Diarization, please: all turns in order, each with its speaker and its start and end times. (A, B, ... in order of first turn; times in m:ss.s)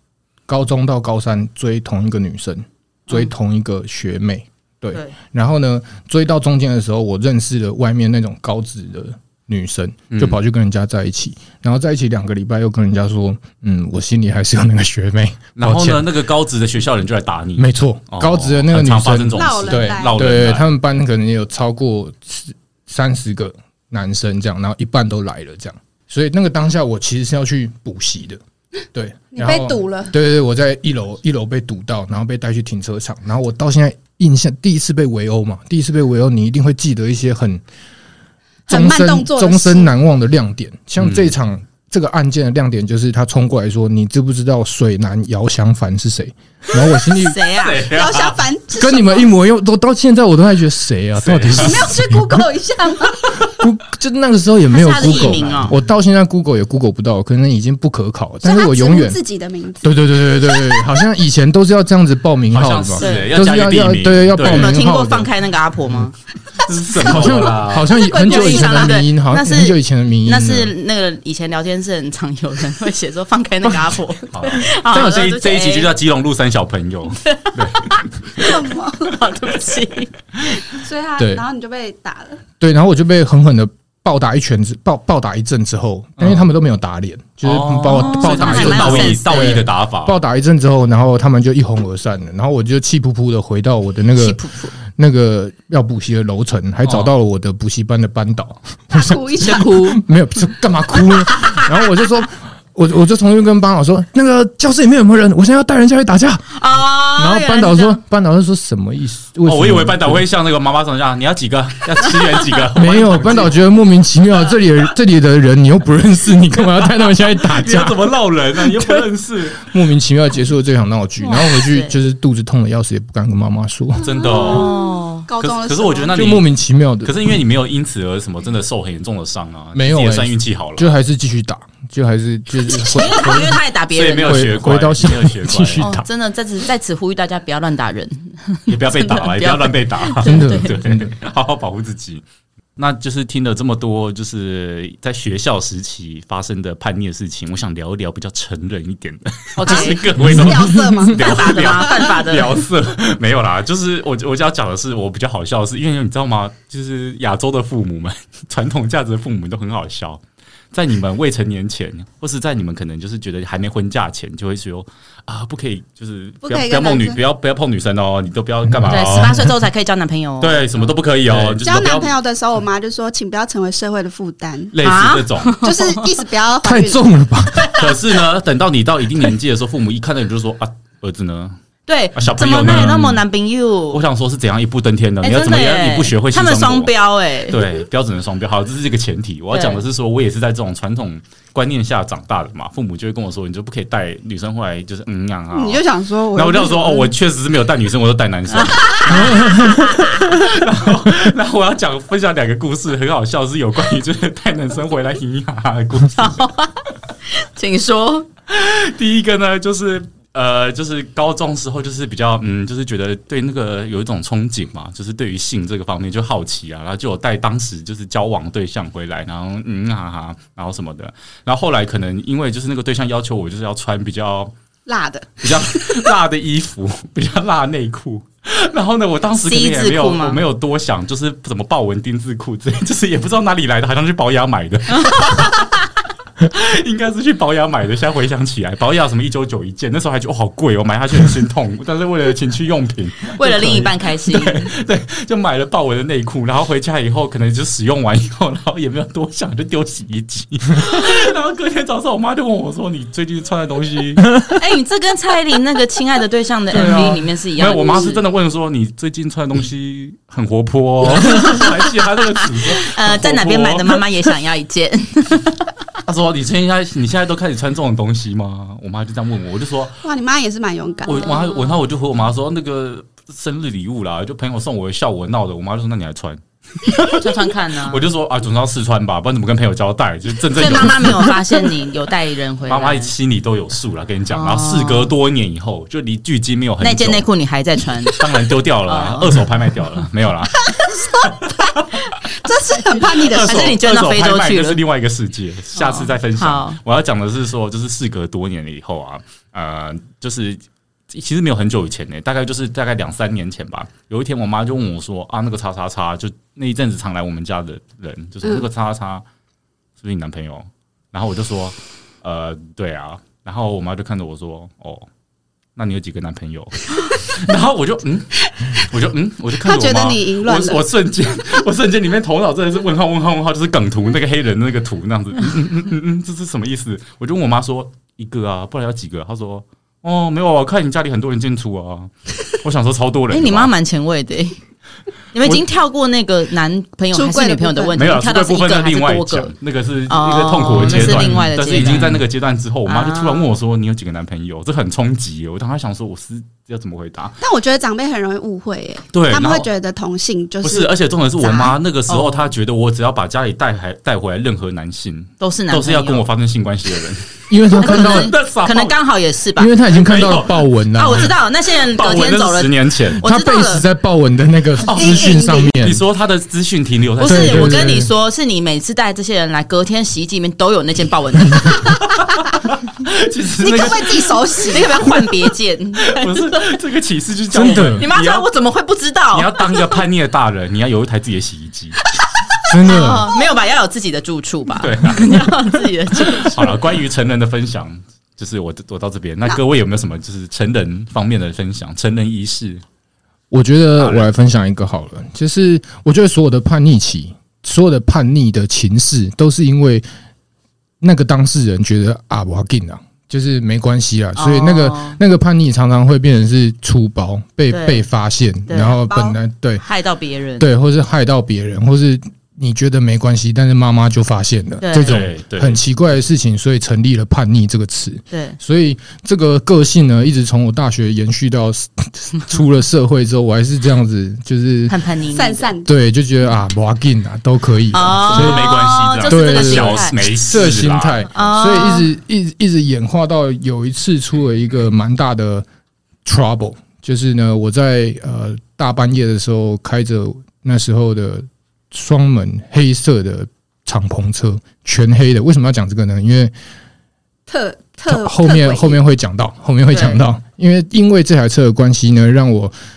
0:00.5-0:16.1 A
0:10.1-0:10.4 B
0:15.6-0:20.7 B
0:17.6-0:28.4 A
0:19.3-0:20.2 C
0:28.9-0:37.6 A
0:29.3-0:30.1 C
0:38.7-0:39.9 C
0:38.7-0:47.4 A
0:41.0-0:41.3 B
0:47.0-0:47.8 D
0:47.4-0:48.4 B
0:47.8-0:49.3 C
0:48.7-0:52.4 A
0:51.2-0:51.8 B
0:51.6-0:53.6 C
0:53.3-0:59.2 A
0:54.7-0:55.7 D
0:58.4-1:01.0 C
0:59.8-1:05.3 A
1:02.5-1:04.8 B
1:03.0-1:03.3 D
1:04.4-1:06.1 D
1:06.6-1:07.9 B
1:07.0-1:10.7 A
1:07.9-1:15.9 D
1:08.0-1:09.0 C
1:14.3-1:18.1 B
1:17.2-1:20.6 D
1:18.4-1:19.2 C
1:20.8-1:22.4 C
1:21.2-1:21.4 A
1:22.6-1:46.5 A
1:26.2-1:26.5 B
1:27.4-1:30.2 B
1:27.8-1:29.6 D
1:34.2-1:34.8 D
1:36.8-1:37.1 B
1:38.9-1:40.0 C
1:39.4-1:40.0 D
1:41.3-1:41.7 D
1:46.5-1:48.0 D
1:47.2-1:50.2 A
1:49.4-1:53.6 B
1:52.8-1:58.0 A
1:57.2-1:59.6 B
1:58.6-1:59.0 A
1:59.6-2:04.1 A
2:01.2-2:02.0 D
2:04.0-2:04.7 B
2:04.2-2:06.1 C
2:04.3-2:05.3 D
2:05.4-2:06.5 B
2:06.1-2:07.4 A
2:07.0-2:10.9 B
2:09.7-2:13.6 A
2:12.7-2:14.5 D
2:13.9-2:15.8 B
2:14.1-2:16.0 A
2:15.8-2:20.8 D
2:18.7-2:22.2 B
2:20.2-2:21.1 A
2:22.8-2:40.2 B
2:29.6-2:30.0 D
2:29.6-2:32.2 C
2:30.2-2:31.1 A
2:31.1-2:32.6 D
2:40.7-2:49.5 B
2:46.4-2:47.2 C
2:48.7-2:49.3 A
2:48.8-2:50.8 D
2:50.4-2:52.1 B
2:51.3-2:51.6 A
2:51.6-2:54.7 C
2:54.7-2:55.6 B
2:54.8-2:56.0 D
2:55.6-2:57.0 C
2:56.6-2:57.7 A
2:57.5-2:58.0 D
2:57.7-3:01.6 B
3:01.9-3:04.0 D
3:02.1-3:03.2 B
3:03.9-3:06.9 B
3:05.2-3:07.7 D
3:07.5-3:15.8 B
3:09.5-3:09.8 D
3:15.5-3:17.1 C
3:16.3-3:26.5 B
3:18.5-3:20.3 D
3:19.1-3:20.0 A
3:26.2-3:28.3 D
3:28.5-3:44.5 B
3:44.8-3:46.1 C
3:45.4-3:55.7 B
3:49.3-3:50.4 D
3:54.9-3:55.8 D
3:56.4-4:14.3 B
4:03.4-4:04.7 D
4:14.5-4:18.2 D
4:16.7-4:24.0 B
4:21.1-4:21.8 D
4:22.6-4:25.7 D
4:26.0-4:30.0 B
4:30.0-4:31.4 C
4:31.0-4:37.2 B
4:31.0-4:31.8 D
4:37.0-4:38.0 D
4:37.8-4:41.3 B
4:40.5-4:43.1 D
4:42.6-4:47.3 B
4:44.3-4:45.1 D
4:46.8-4:48.2 D
4:48.1-4:52.0 B
4:48.8-4:49.5 D
4:50.6-4:51.6 C
4:52.2-4:53.7 C
4:53.1-5:09.2 B
4:53.2-4:54.8 D
4:55.8-4:56.8 D
5:10.0-5:15.1 B
5:15.8-5:33.7 B
5:19.6-5:20.8 C
5:33.3-5:34.6 D
5:35.3-5:39.5 D
5:37.1-5:38.0 C
5:38.0-5:47.4 B
5:40.1-5:42.2 D
5:40.8-5:42.1 A
5:42.8-5:43.5 D
5:47.4-5:51.7 C
5:49.1-5:49.7 B
5:50.6-5:59.0 B
5:52.1-5:52.5 D
5:55.4-5:56.2 D
5:57.5-5:58.3 A
5:57.8-5:59.7 D
5:59.6-6:01.3 A
5:59.9-6:00.6 B
6:00.9-6:03.8 D
6:01.9-6:03.2 B
6:03.2-6:06.0 A
6:04.8-6:07.9 B
6:04.9-6:05.7 C
6:07.2-6:12.1 D
6:07.2-6:08.1 A
6:12.1-6:14.9 B
6:13.6-6:15.1 C
6:14.7-6:16.7 D
6:16.0-6:18.4 B
6:17.5-6:18.0 A
6:17.9-6:19.9 D
6:19.3-6:22.0 B
6:22.6-6:26.8 D
6:22.7-6:23.3 A
6:24.8-6:25.4 B
6:26.2-6:32.8 B
6:33.5-6:40.0 A
6:34.0-6:34.3 B
6:41.0-6:49.8 A
6:44.4-6:45.2 D
6:47.7-6:48.0 D
6:48.7-6:49.0 D
6:49.1-6:49.4 C
6:49.8-6:50.7 D
6:50.6-7:04.9 A
6:54.8-6:55.2 D
6:55.0-6:55.8 B
6:58.3-6:58.6 D
7:04.9-7:05.7 D
7:05.3-7:05.9 C
7:05.8-7:08.7 A
7:07.9-7:10.6 D
7:08.2-7:11.3 B
7:09.2-7:15.6 A
7:11.3-7:12.1 D
7:16.2-7:26.5 A
7:27.5-7:29.0 C
7:28.1-7:32.7 A
7:29.9-7:30.2 D